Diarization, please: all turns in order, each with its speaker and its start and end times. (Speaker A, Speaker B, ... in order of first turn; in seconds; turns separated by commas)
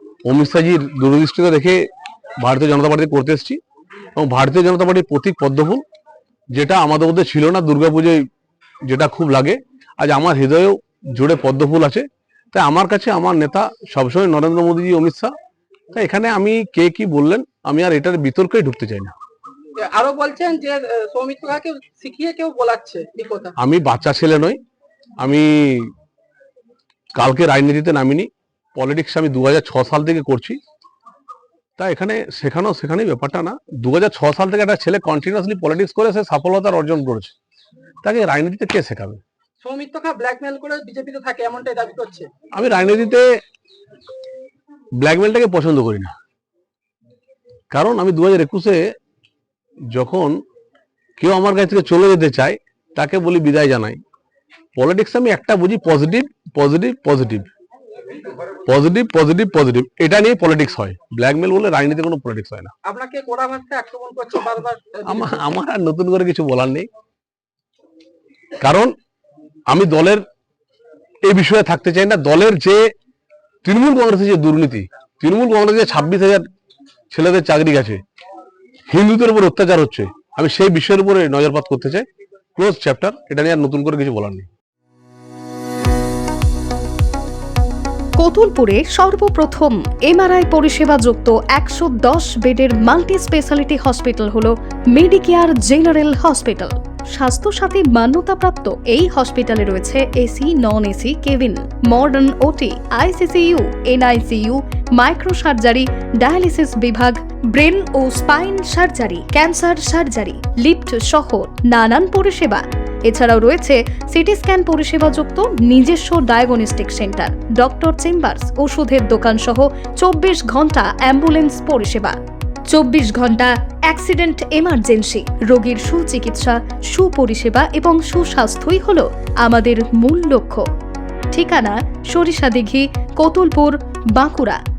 Speaker A: 0.2-1.8, Speaker A: 2.4-3.6, Speaker A: 4.2-5.8, Speaker A: 6.5-8.2, Speaker A: 8.8-15.3, Speaker A: 15.9-19.1, Speaker B: 19.8-23.5, Speaker A: 23.6-24.6, Speaker A: 25.2-25.9, Speaker A: 27.1-30.6, Speaker A: 31.8-37.3, Speaker A: 38.0-39.2, Speaker B: 39.6-42.3, Speaker A: 42.5-43.2, Speaker A: 45.0-46.1, Speaker A: 47.7-48.8, Speaker A: 49.9-50.4, Speaker A: 51.2-54.0, Speaker A: 54.8-57.5, Speaker A: 58.6-62.7, Speaker B: 62.8-65.4, Speaker A: 65.1-66.9, Speaker A: 68.6-68.9, Speaker A: 69.7-70.2, Speaker A: 71.2-72.8, Speaker A: 73.6-76.4, Speaker A: 77.1-78.0, Speaker A: 78.9-84.5, Speaker C: 88.2-122.2, Speaker C: 122.7-130.7, Speaker C: 131.3-134.6